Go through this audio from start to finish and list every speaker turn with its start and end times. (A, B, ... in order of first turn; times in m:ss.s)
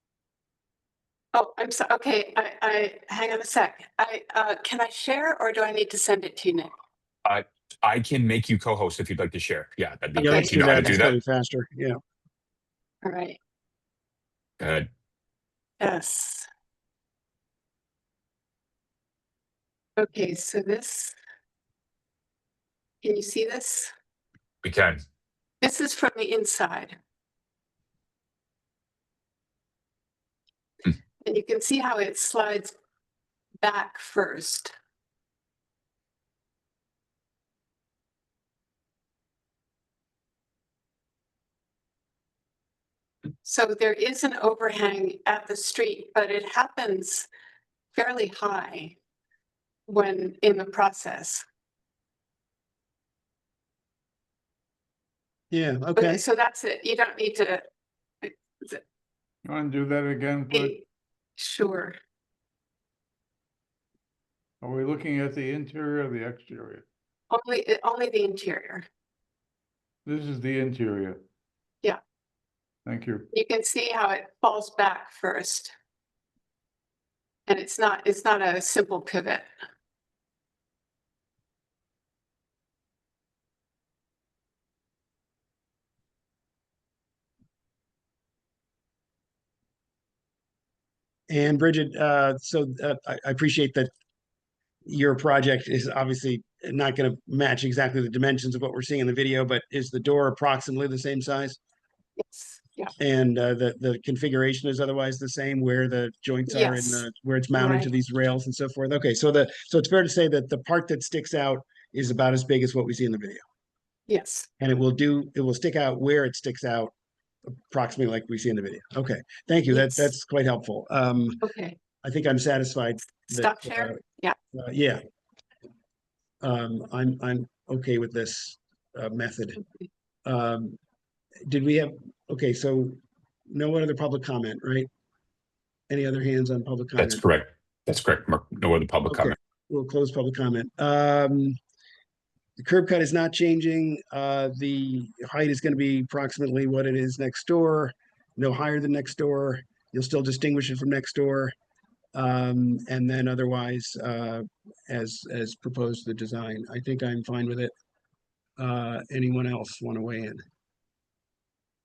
0:01.3-0:06.7 A
0:07.2-0:11.2 B
0:10.2-0:10.7 A
0:10.2-0:12.0 C
0:13.0-0:13.4 A
0:14.6-0:14.9 B
0:15.8-0:16.4 A
0:20.0-0:21.1 A
0:23.0-0:23.9 A
0:24.6-0:25.0 B
0:25.6-0:27.0 A
0:31.2-0:32.7 A
0:33.6-0:34.7 A
0:43.4-0:47.3 A
0:47.9-0:49.0 A
0:49.9-0:51.4 A
0:55.5-0:56.2 C
0:56.0-0:57.6 A
0:58.2-0:58.8 A
0:59.4-1:00.8 D
1:00.5-1:00.8 A
1:01.4-1:02.0 A
1:04.6-1:06.8 D
1:07.3-1:08.8 A
1:10.0-1:11.2 D
1:12.8-1:13.3 D
1:13.3-1:15.7 A
1:17.5-1:19.5 A
1:31.3-1:33.9 C
1:34.8-1:41.6 C
1:42.2-1:42.9 A
1:43.0-1:53.4 C
1:46.5-1:47.9 A
1:54.1-1:54.5 A
1:54.6-1:56.9 C
1:57.7-2:01.4 C
1:59.7-2:00.1 A
2:01.4-2:01.8 A
2:02.0-2:04.0 C
2:03.3-2:04.3 A
2:04.5-2:05.0 C
2:06.4-2:09.6 C
2:10.2-2:10.8 C
2:11.5-2:14.9 C
2:15.9-2:17.2 C
2:17.0-2:19.3 B
2:19.0-2:21.6 C
2:22.6-2:31.5 C
2:32.1-2:37.7 C
2:38.6-2:40.4 C